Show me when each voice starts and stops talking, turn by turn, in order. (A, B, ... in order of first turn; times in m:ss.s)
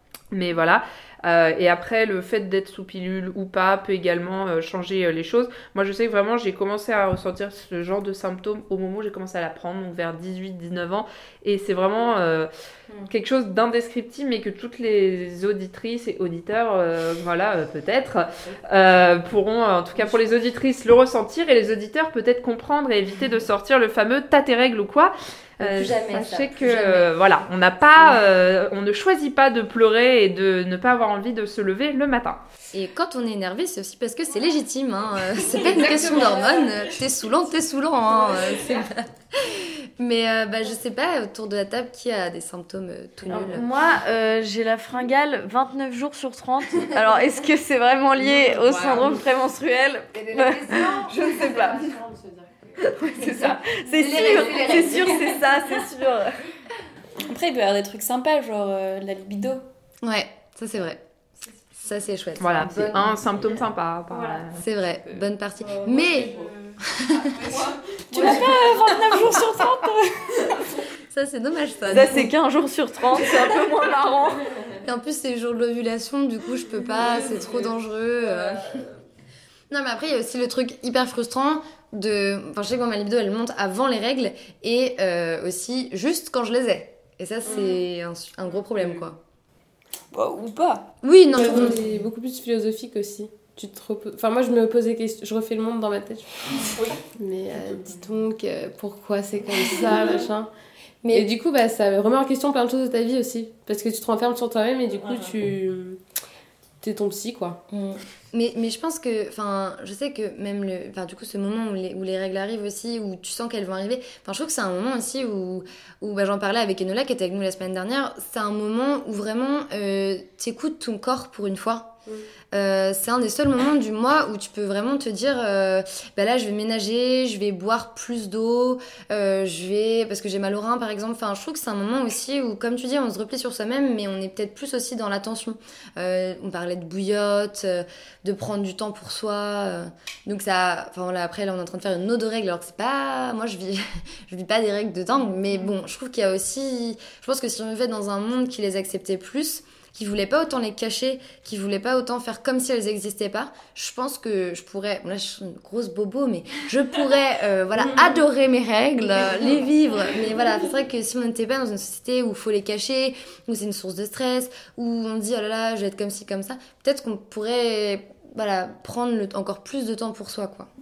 0:00.3-0:12.5 A
0:13.1-0:32.4 A
0:25.6-0:27.1 B
0:32.7-0:43.7 B
0:35.6-0:36.6 C
0:35.7-0:36.2 A
0:43.3-0:52.0 D
0:48.2-0:49.1 A
0:50.1-0:51.7 B
0:50.9-0:53.4 C
0:52.8-0:56.4 D
0:53.2-0:55.3 B
0:54.0-0:55.1 C
0:57.3-0:59.6 E
1:00.0-1:01.0 B
1:01.7-1:03.4 B
1:02.4-1:04.6 A
1:04.5-1:07.6 B
1:08.1-1:10.8 E
1:08.1-1:08.5 B
1:11.1-1:12.3 B
1:11.9-1:14.4 D
1:14.8-1:18.7 B
1:17.0-1:17.5 C
1:19.7-1:29.2 B
1:27.4-1:27.8 C
1:30.1-1:30.9 E
1:31.0-1:31.9 B
1:31.3-1:40.5 C
1:41.0-1:41.3 B
1:41.1-1:46.0 C
1:46.8-1:47.6 C
1:47.7-2:01.9 B
2:02.5-2:50.7 B
2:37.8-2:38.2 C
2:39.2-2:39.5 C